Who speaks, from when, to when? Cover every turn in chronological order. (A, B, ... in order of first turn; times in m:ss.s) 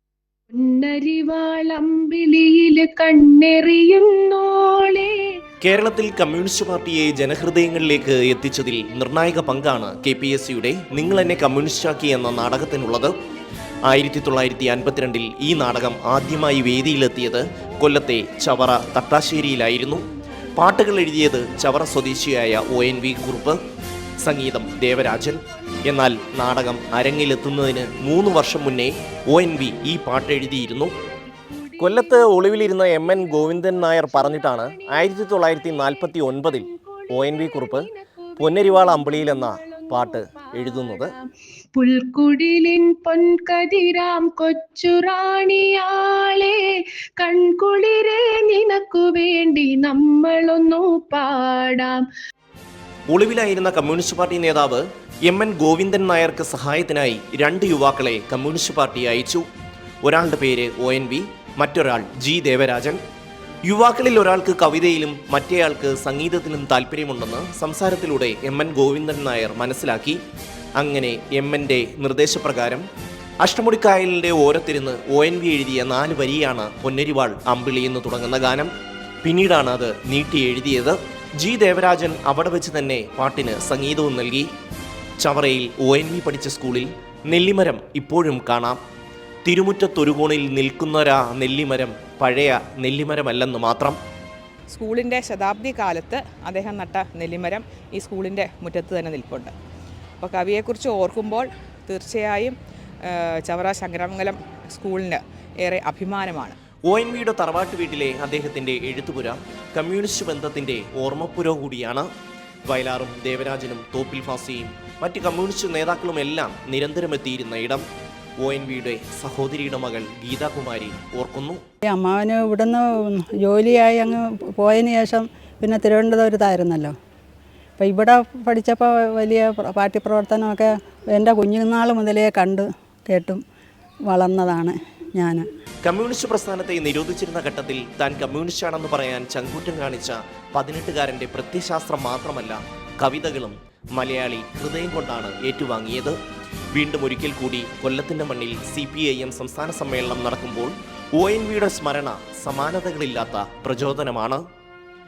0:00.5-0:05.1 A
0:05.6-0:13.2 B
0:13.8-0:23.6 B
0:24.2-0:30.9 B
0:31.2-0:52.0 A
0:31.8-0:41.1 B
0:53.1-0:59.4 B
1:00.0-1:03.0 B
1:03.6-1:10.2 B
1:10.8-1:12.8 B
1:13.4-1:18.7 B
1:19.2-1:24.5 B
1:25.2-1:28.8 B
1:29.4-1:34.0 B
1:34.7-1:39.5 C
1:40.2-1:46.6 C
1:46.9-1:52.1 B
1:52.7-1:57.8 B
1:58.4-2:01.6 B
2:01.8-2:06.9 D
2:07.8-2:13.4 D
2:14.1-2:15.4 D
2:15.8-2:26.2 B
2:26.7-2:34.4 B